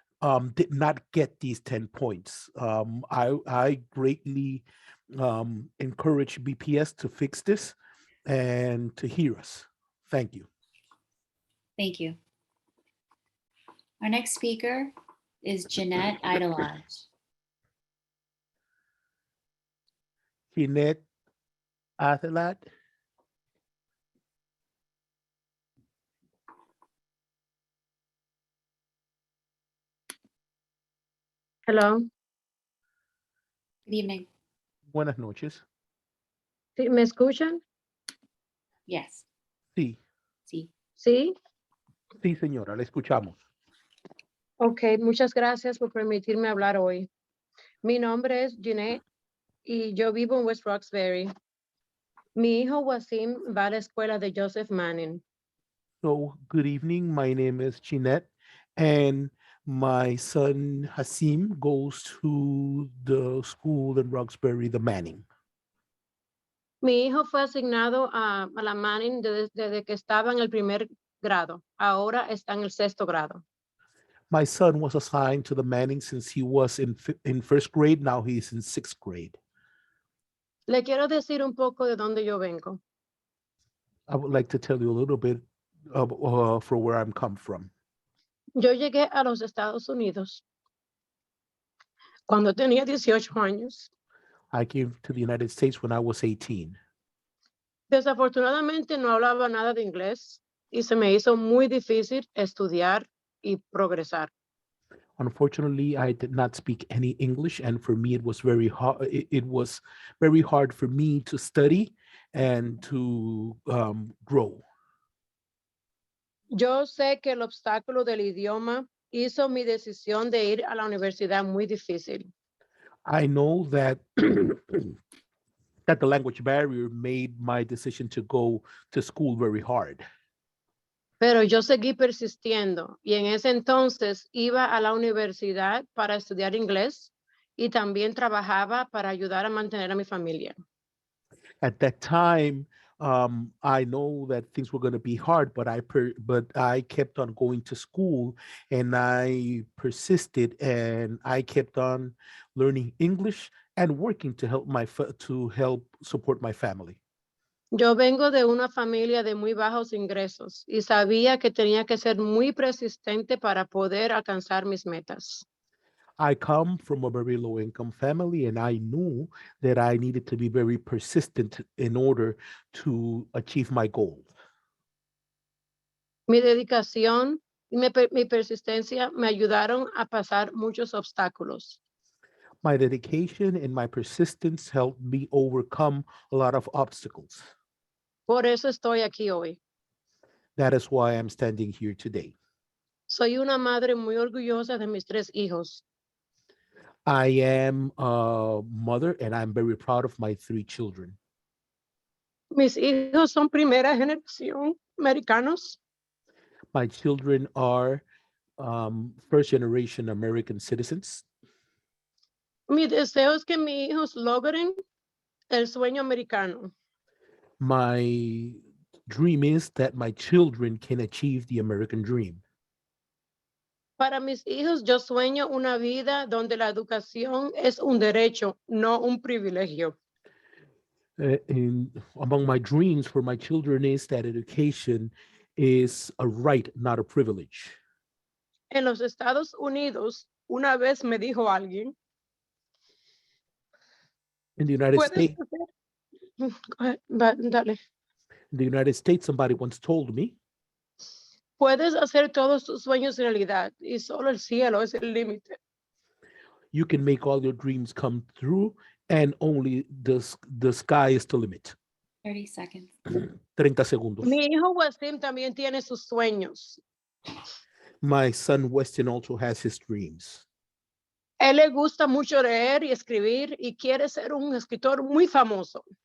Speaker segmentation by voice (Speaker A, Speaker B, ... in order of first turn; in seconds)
Speaker A: 0.2-10.5, 20.5-21.0, 22.0-22.7, 34.9-35.6, 39.7-40.0, 42.2-43.4, 56.0-65.2, 74.3-79.4, 84.1-87.7, 94.5-96.8, 105.2-114.6, 123.0-125.0, 125.9-130.0, 141.6-157.0, 166.2-174.3, 182.6-187.5, 190.6-192.3, 197.1-201.2, 206.7-208.0, 208.6-211.2, 217.6-222.4, 231.2-237.8, 244.6-245.3, 248.5-250.3, 256.7-261.7, 263.5-264.3, 268.0-270.4
Speaker B: 11.8-12.2, 14.0-17.1, 33.9-34.3, 38.9-39.2, 262.2-262.9
Speaker C: 31.7-32.0, 36.8-37.6, 41.0-41.3, 44.6-47.1, 47.8-49.0, 49.6-51.3, 52.4-55.2, 66.8-73.4, 80.7-82.8, 88.6-90.4, 92.3-93.9, 97.9-104.3, 116.6-122.3, 131.2-140.5, 157.7-165.4, 176.3-181.8, 188.3-189.6, 193.1-195.8, 202.5-205.8, 212.7-214.7, 215.5-216.7, 224.0-229.9, 238.7-241.9, 244.9-245.7, 246.4-247.8, 251.6-255.6, 264.2-266.8, 271.4-275.8